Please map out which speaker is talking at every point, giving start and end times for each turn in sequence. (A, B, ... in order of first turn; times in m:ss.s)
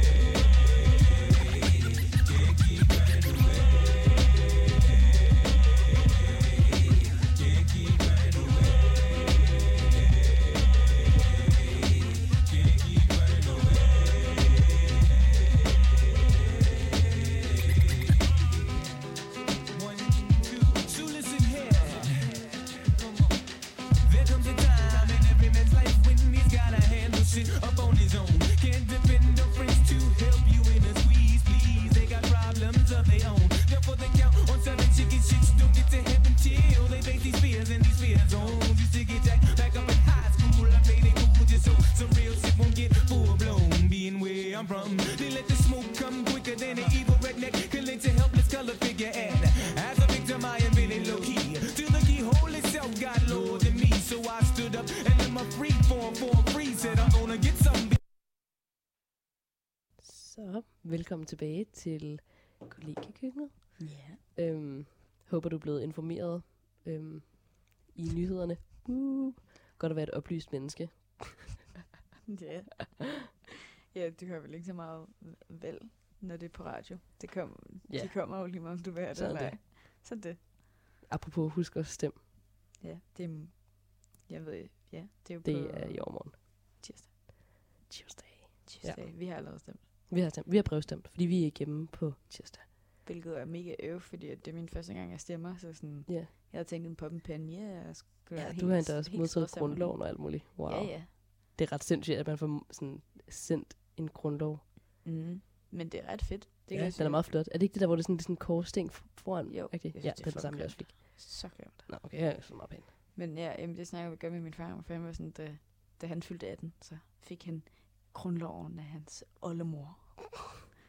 0:02.2-0:03.8 A
0:07.2-0:09.3 A
0:11.7-0:14.7 A
0:16.7-0:17.9 A
0:19.7-0:58.0 A
0:56.8-0:57.1 B
1:00.0-1:11.6 C
1:03.8-1:04.2 B
1:12.3-1:13.4 B
1:13.9-1:20.5 B
1:17.9-1:19.6 C
1:21.1-1:22.2 C
1:22.8-1:27.4 B
1:25.4-1:26.4 C
1:27.9-1:29.5 C
1:28.7-1:29.9 B
1:30.1-1:32.7 C
1:33.0-1:41.1 B
1:38.4-1:44.7 C
1:45.0-1:47.3 B
1:46.7-1:52.9 C
1:49.5-1:51.9 B
1:53.1-2:00.5 B